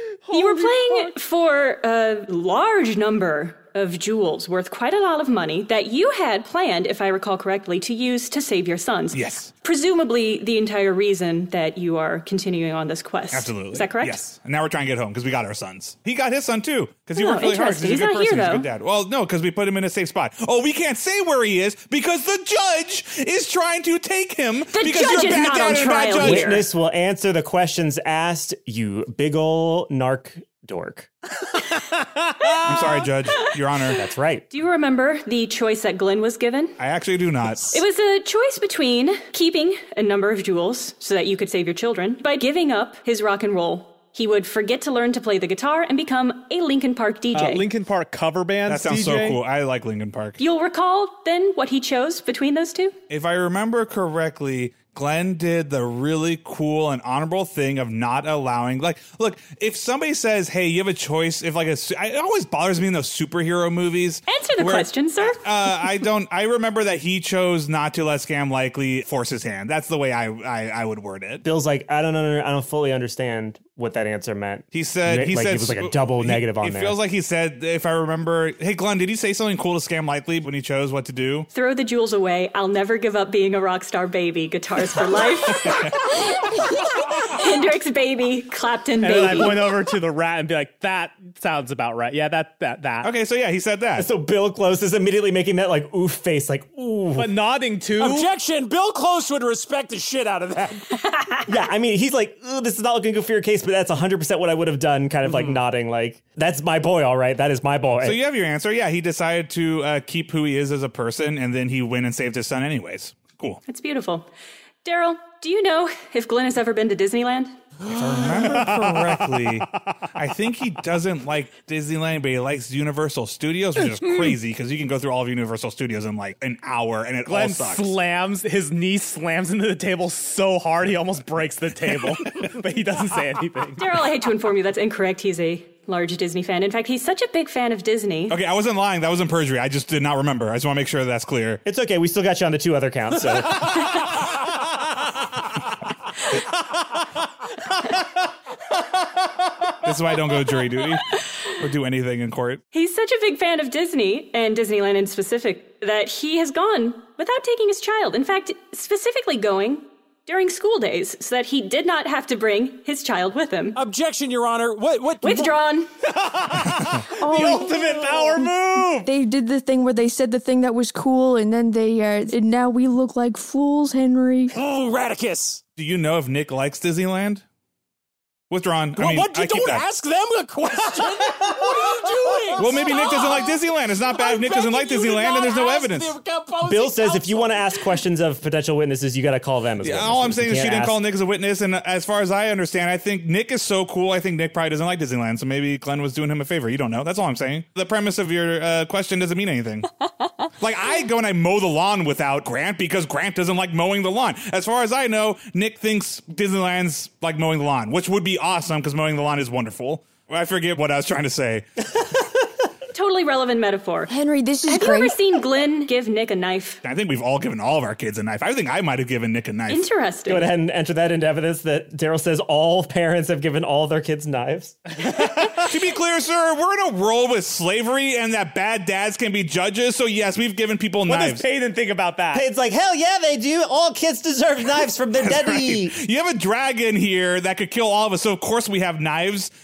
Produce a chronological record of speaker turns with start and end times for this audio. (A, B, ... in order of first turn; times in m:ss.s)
0:00.3-0:14.3 A
0:09.1-0:09.5 B
0:13.3-0:26.6 B
0:17.2-0:18.7 A
0:24.7-0:26.7 A
0:26.2-0:31.1 C
0:32.6-0:34.0 B
0:33.9-0:34.4 C
0:34.5-0:36.8 A
0:36.8-0:37.8 B
0:37.7-0:47.6 A
0:47.3-0:49.4 D
0:48.7-0:50.4 B
0:50.4-0:53.0 A
0:53.1-1:11.4 B
1:04.3-1:05.4 A
1:11.4-1:17.0 C
1:14.7-1:21.5 B
1:21.5-1:26.2 A
1:25.7-1:26.0 B
1:26.7-1:29.7 A
1:29.0-1:33.1 D
1:33.0-1:34.1 B
1:34.0-1:37.4 C
1:37.2-1:38.3 D
1:38.0-1:41.0 E
1:41.5-1:48.2 C
1:48.0-1:53.6 B
1:53.7-1:54.3 A
1:54.8-1:57.6 A
1:57.9-2:07.9 B
1:58.0-1:59.6 D
2:07.3-2:13.9 D
2:13.8-2:18.4 A
2:18.3-2:21.6 B
2:21.6-2:23.8 C
2:29.8-2:32.6 B
2:32.7-2:43.8 A
2:43.8-2:45.6 E
2:45.2-2:45.9 A
2:46.1-2:49.1 D
2:47.1-2:54.5 F
2:54.5-2:55.6 E
2:55.8-2:57.4 B
2:58.5-2:59.8 B
2:59.0-3:03.6 E
3:02.6-3:06.2 B
3:04.1-3:07.8 E
3:06.7-3:11.0 C
3:09.8-3:19.9 B
3:20.6-3:31.6 B
3:32.9-3:34.1 A
3:34.1-3:35.2 F
3:34.7-3:36.8 A
3:36.8-3:39.9 B
3:39.7-3:40.5 A
3:40.3-3:44.8 C
3:45.4-3:51.4 B
3:51.1-3:52.5 D
3:52.3-3:56.0 C
3:55.2-3:59.5 B